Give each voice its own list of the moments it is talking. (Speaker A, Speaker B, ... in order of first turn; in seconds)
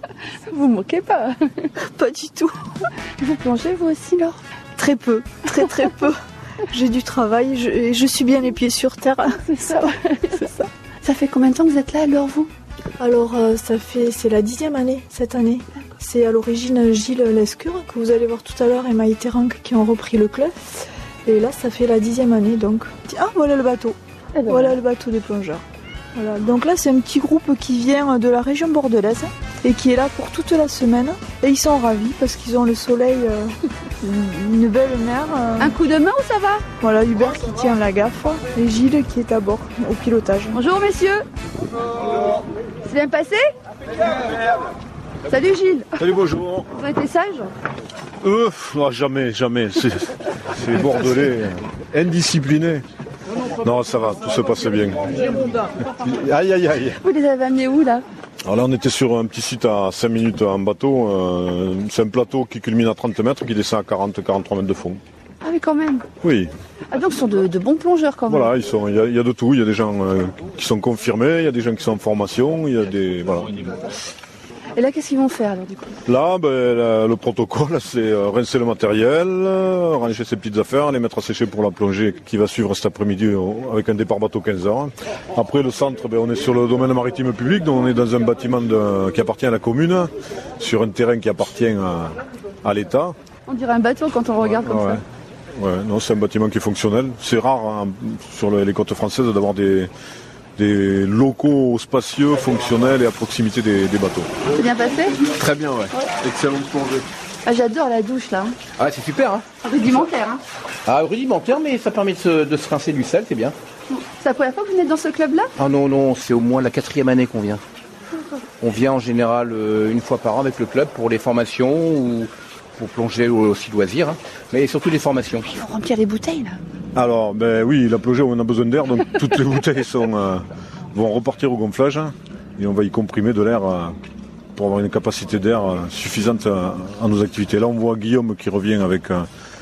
Speaker A: 0.3-1.7, 3.2-4.4, 9.4-10.4, 11.0-12.5, 24.4-24.7, 35.6-36.6, 40.5-41.3, 42.8-43.5, 45.3-45.9, 46.7-47.5, 57.0-58.0, 65.4-66.1, 66.9-68.5, 74.8-76.0, 93.5-95.0, 104.5-105.3, 107.5-108.6, 109.6-110.4, 113.9-115.5, 125.6-126.6
Speaker B: 1.8-2.6, 4.8-10.7, 13.0-25.6, 26.1-35.8, 36.8-40.6
Speaker C: 46.0-46.7, 48.2-52.8, 53.5-57.0, 58.5-65.0, 66.2-66.5, 68.3-73.8, 76.1-93.2, 94.6-95.0, 95.5-99.9, 100.6-104.3, 127.0-133.9, 134.6-139.3
Speaker D: 105.4-107.0, 108.8-109.5, 110.9-113.5, 115.6-117.6, 118.6-125.5